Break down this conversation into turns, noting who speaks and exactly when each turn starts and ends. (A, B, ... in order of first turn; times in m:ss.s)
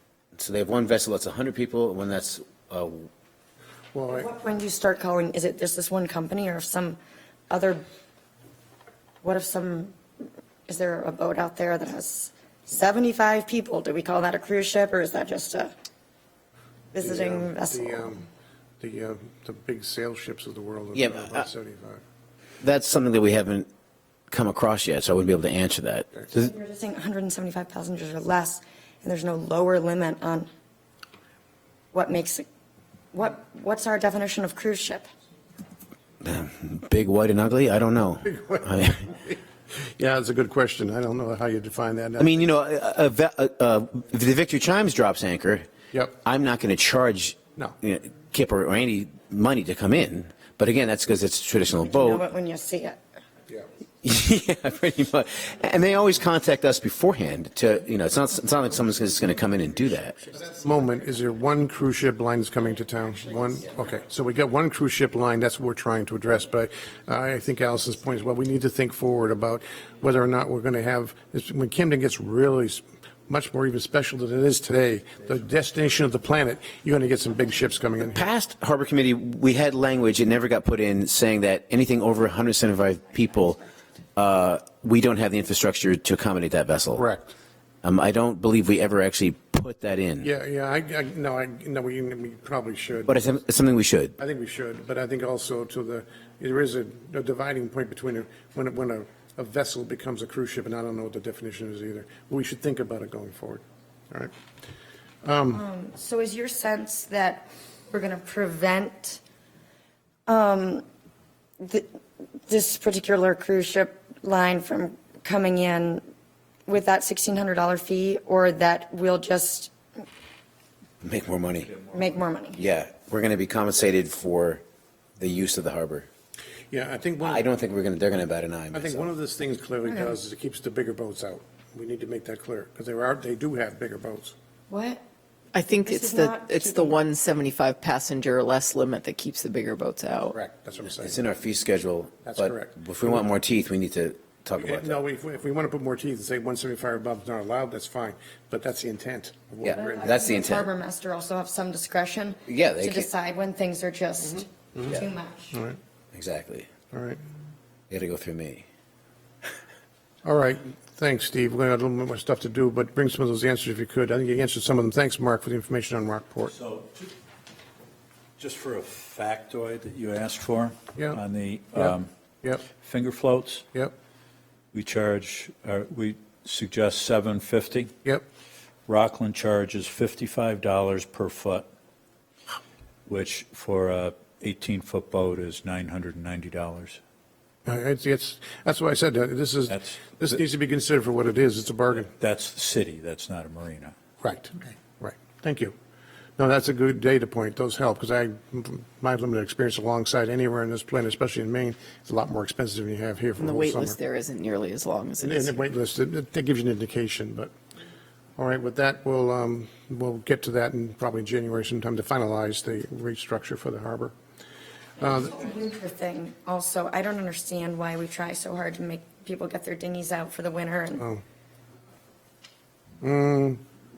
0:00.4-0:03.1 A
0:03.9-0:04.3 B
0:04.1-0:07.0 C
0:07.5-0:07.8 C
0:09.2-0:10.0 C
0:10.7-0:15.7 C
0:16.9-0:18.1 C
0:17.0-0:18.3 B
0:18.8-0:22.0 B
0:20.9-0:21.4 A
0:22.6-0:23.7 A
0:24.3-0:26.5 A
0:26.3-0:30.5 C
0:31.9-0:32.4 C
0:33.1-0:35.1 C
0:36.2-0:39.0 A
0:38.3-0:42.3 B
0:42.2-0:45.7 A
0:46.2-0:52.2 A
0:51.9-0:53.0 C
0:54.0-1:00.3 A
1:00.5-1:18.2 B
1:18.0-1:23.6 A
1:24.2-1:27.0 A
1:26.9-1:27.3 B
1:27.8-1:30.3 A
1:30.2-1:33.2 B
1:33.1-1:34.1 A
1:34.2-1:44.3 B
1:45.2-1:45.6 B
1:45.5-1:49.2 C
1:50.3-1:50.8 C
1:51.6-1:51.9 C
1:52.5-1:56.0 C
1:56.7-1:59.7 C
2:01.0-2:01.8 A
2:01.9-2:02.6 C
2:02.5-2:04.6 A
2:05.2-2:06.1 A
2:06.7-2:07.4 B
2:07.2-2:09.1 A
2:08.7-2:14.3 B
2:09.8-2:10.1 C
2:14.7-2:15.0 C
2:15.5-2:20.3 D
2:15.7-2:17.0 C
2:20.3-2:21.2 B
2:21.0-2:25.0 A
2:22.2-2:23.2 B
2:24.6-2:30.2 B
2:29.6-2:30.7 A
2:29.8-2:35.6 C
2:32.5-2:33.1 A
2:34.7-2:35.0 B
2:36.1-2:36.7 A
2:36.9-2:37.2 B
2:37.9-2:38.6 A
2:40.2-2:46.5 B
2:46.5-2:47.0 E
2:48.4-2:52.1 E
2:51.7-2:52.6 B
2:52.8-2:53.6 E
2:54.7-2:57.9 E
2:58.9-3:01.7 E
3:03.1-3:07.0 E
3:07.6-3:12.1 B
3:12.2-3:13.9 E
3:14.2-3:15.7 B
3:16.4-3:24.0 B
3:23.4-3:25.7 D
3:25.2-3:27.5 B
3:28.4-3:34.1 B
3:35.0-3:35.4 B
3:35.0-3:41.0 C
3:41.0-3:41.2 B
3:43.0-3:43.6 B